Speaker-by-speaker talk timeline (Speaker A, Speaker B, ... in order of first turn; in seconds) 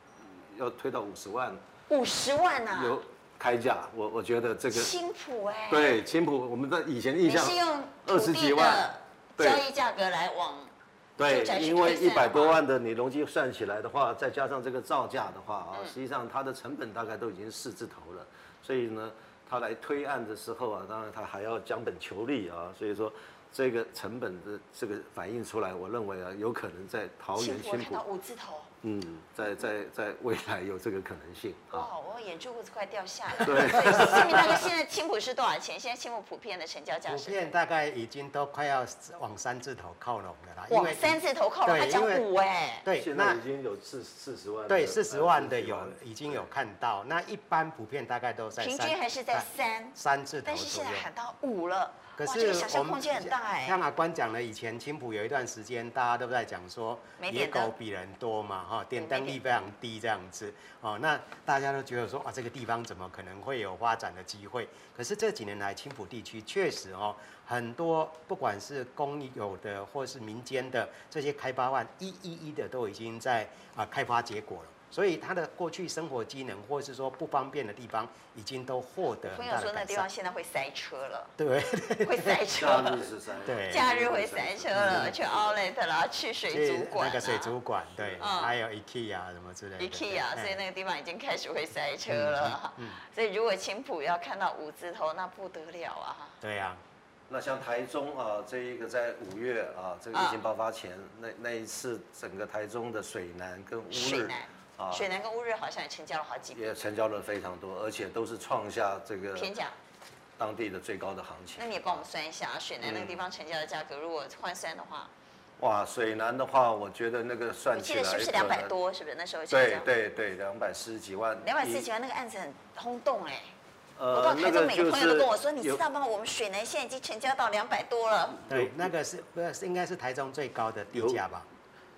Speaker A: 0.4-1.6, 2.7-4.9, 5.7-9.6, 11.2-28.0, 28.8-31.9, 33.4-34.7, 43.0-46.4, 82.5-85.6, 97.3-105.0, 106.5-109.5, 110.4-112.0, 112.8-113.2, 115.6-118.7, 119.5-121.8, 124.0-125.8, 128.5-128.8, 130.9-131.2
Speaker B: 1.9-3.0, 4.7-6.0, 7.2-12.6, 27.4-28.7, 31.7-37.5, 40.7-42.9, 48.6-53.8, 57.2-57.7, 59.0-59.4, 79.2-81.3, 82.0-83.1, 83.6-87.5, 88.2-88.5, 89.8-96.4, 100.1-100.4, 103.9-106.8, 109.3-109.7, 111.6-115.1, 117.7-119.9, 121.4-123.5, 124.1-128.4
Speaker C: 37.1-42.2, 42.8-43.4, 44.7-51.1, 52.2-80.1, 81.4-82.4, 83.4-83.8, 84.7-85.1, 86.5-90.6, 92.1-93.0, 96.4-96.8, 128.5-131.5